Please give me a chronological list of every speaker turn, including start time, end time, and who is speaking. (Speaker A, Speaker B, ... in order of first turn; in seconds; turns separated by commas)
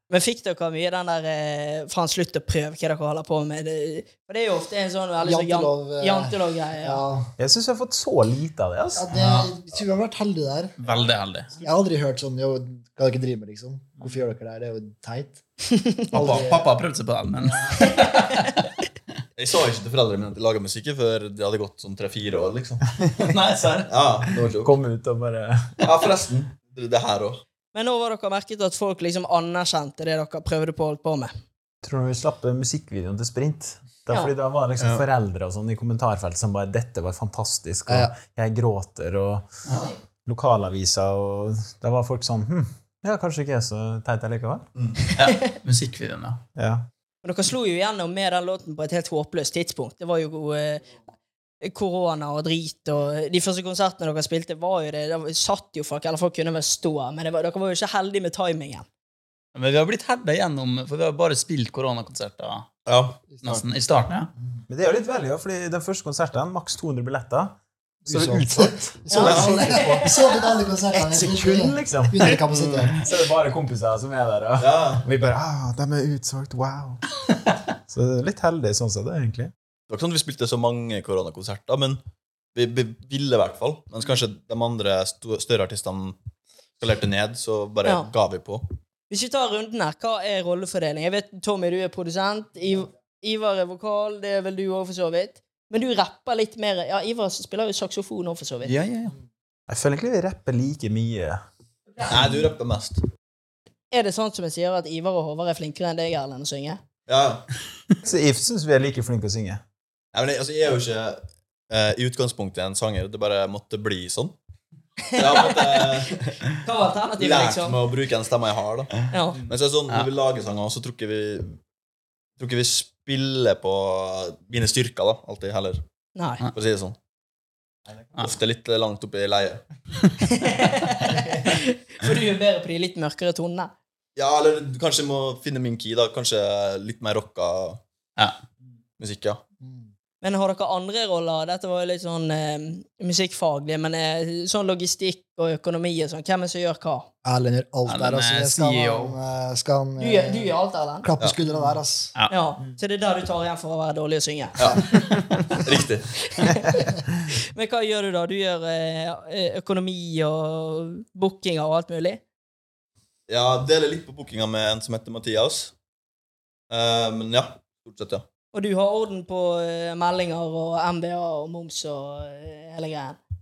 Speaker A: 0.1-7.0, Speaker B: 5.2-7.3, Speaker C: 7.4-9.1, Speaker B: 8.9-10.7, Speaker D: 9.1-9.5, Speaker D: 10.8-11.5, Speaker B: 11.6-15.4, Speaker A: 15.7-16.1, Speaker B: 16.1-16.7, Speaker D: 16.1-18.5, Speaker A: 17.8-18.3, Speaker E: 19.4-22.8, Speaker D: 23.2-23.9, Speaker E: 23.9-24.7, Speaker C: 24.6-25.8, Speaker E: 25.8-27.4, Speaker A: 27.7-31.3, Speaker C: 31.8-39.4, Speaker C: 40.2-44.7, Speaker E: 44.8-45.0, Speaker D: 45.1-46.4, Speaker C: 46.5-46.9, Speaker A: 47.2-50.8, Speaker A: 51.6-58.9, Speaker D: 59.5-62.7, Speaker E: 62.9-63.2, Speaker B: 63.3-63.6, Speaker D: 63.3-64.3, Speaker C: 64.7-70.1, Speaker B: 68.0-73.0, Speaker A: 69.1-70.1, Speaker E: 69.2-69.6, Speaker C: 70.9-77.0, Speaker E: 74.6-75.0, Speaker C: 77.9-79.5, Speaker E: 79.9-82.0, Speaker E: 82.5-86.2, Speaker E: 86.8-88.7, Speaker A: 87.8-88.1, Speaker A: 89.1-98.7, Speaker D: 98.6-99.1, Speaker C: 99.7-101.4, Speaker E: 102.0-103.0, Speaker A: 103.9-106.8, Speaker E: 107.1-107.4, Speaker C: 108.0-109.6, Speaker E: 110.1-114.3, Speaker A: 115.1-116.1, Speaker E: 115.1-116.3, Speaker A: 116.6-117.8, Speaker E: 117.2-118.9, Speaker A: 119.1-119.4, Speaker E: 119.5-121.5, Speaker E: 122.4-125.8, Speaker A: 126.2-126.4, Speaker E: 126.5-127.0, Speaker E: 128.2-129.6, Speaker A: 130.2-133.7, Speaker E: 134.2-137.8, Speaker E: 139.0-139.4, Speaker B: 139.6-139.9, Speaker A: 140.2-147.1, Speaker B: 147.2-152.1, Speaker D: 147.9-149.2, Speaker A: 150.0-151.1, Speaker A: 152.3-155.0, Speaker E: 154.6-154.8, Speaker E: 155.5-156.1, Speaker A: 156.3-156.9, Speaker A: 157.5-162.2, Speaker E: 163.3-165.7, Speaker E: 166.7-168.2, Speaker A: 168.5-173.2